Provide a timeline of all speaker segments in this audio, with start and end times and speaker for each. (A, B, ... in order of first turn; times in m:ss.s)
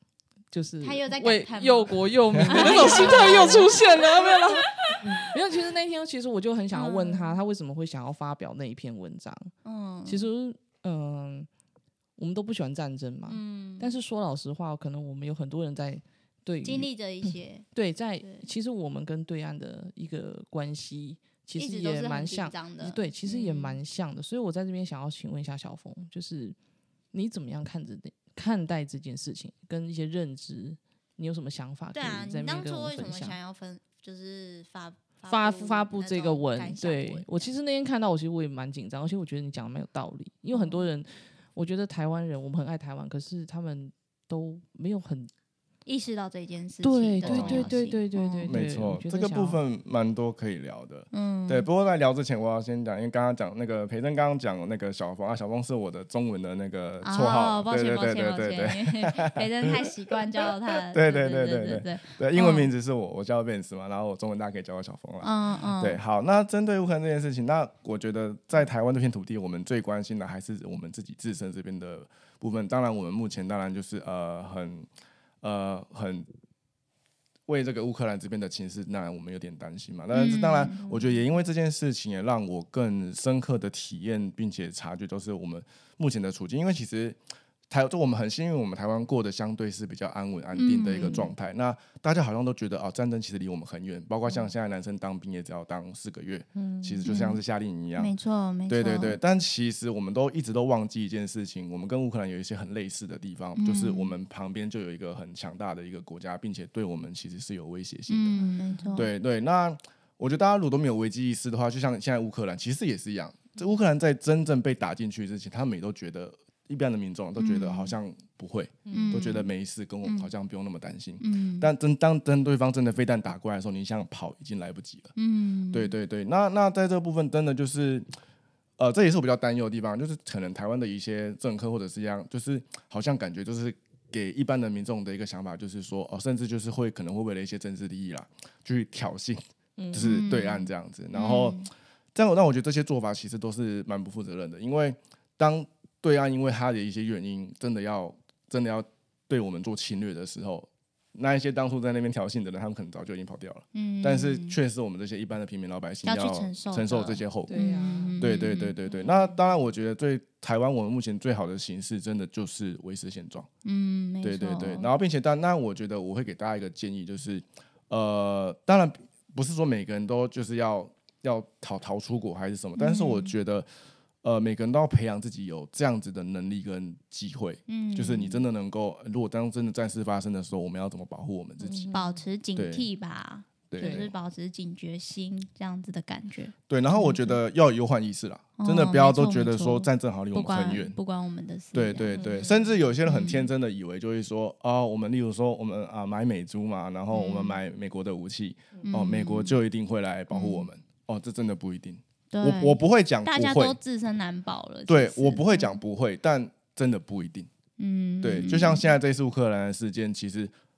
0:00.5-0:09.5 A
0:00.8-0:05.3 B
0:06.7-0:07.4 B
0:09.6-0:10.3 B
0:10.0-0:11.5 A
0:12.2-0:26.6 A
0:13.3-0:13.9 B
0:16.6-0:17.6 B
0:18.2-0:18.4 B
0:21.6-0:23.8 B
0:27.1-0:33.4 A
0:31.9-0:37.5 B
0:35.3-0:45.3 A
0:40.5-0:40.9 B
0:45.8-0:48.5 B
0:46.8-0:49.6 A
0:47.2-0:47.7 C
0:48.5-0:59.9 C
0:51.1-0:51.7 B
0:57.0-1:02.7 B
1:00.7-1:14.9 C
1:05.2-1:06.0 B
1:15.4-1:16.2 C
1:17.5-1:27.2 C
1:20.1-1:20.8 B
1:20.8-1:21.2 A
1:27.7-1:38.1 C
1:30.6-1:31.3 B
1:31.0-1:31.3 A
1:36.6-1:37.0 A
1:37.0-1:37.4 B
1:38.0-1:39.2 B
1:38.7-1:48.4 C
1:43.6-1:44.1 B
1:48.1-1:49.1 B
1:48.3-1:49.0 A
1:48.9-2:05.1 C
1:57.4-1:57.9 B
1:58.8-1:59.3 A
1:58.9-1:59.5 B
2:00.0-2:00.3 B
2:01.2-2:01.7 B
2:05.2-2:05.9 B
2:05.7-2:08.1 C
2:08.8-2:21.6 C
2:19.8-2:20.2 A
2:20.0-2:21.7 B
2:22.1-2:37.6 C
2:33.7-2:34.6 B
2:36.0-2:38.8 B
2:37.5-2:38.3 A
2:38.2-2:43.5 C
2:43.6-2:44.9 B
2:44.2-2:53.7 C
2:52.8-2:53.3 B
2:54.2-3:01.9 C
2:57.7-2:58.4 B
3:01.6-3:02.1 A
3:01.9-3:07.4 B
3:02.6-3:02.8 C
3:03.7-3:04.1 C
3:03.8-3:04.1 A
3:06.7-3:11.0 C
3:08.6-3:12.4 B
3:11.7-3:23.8 C
3:12.2-3:12.6 A
3:13.0-3:13.5 B
3:17.1-3:17.6 B
3:18.8-3:19.6 B
3:20.3-3:20.7 B
3:22.3-3:25.8 B
3:24.9-3:27.5 C
3:27.8-3:28.9 B
3:28.2-3:30.5 C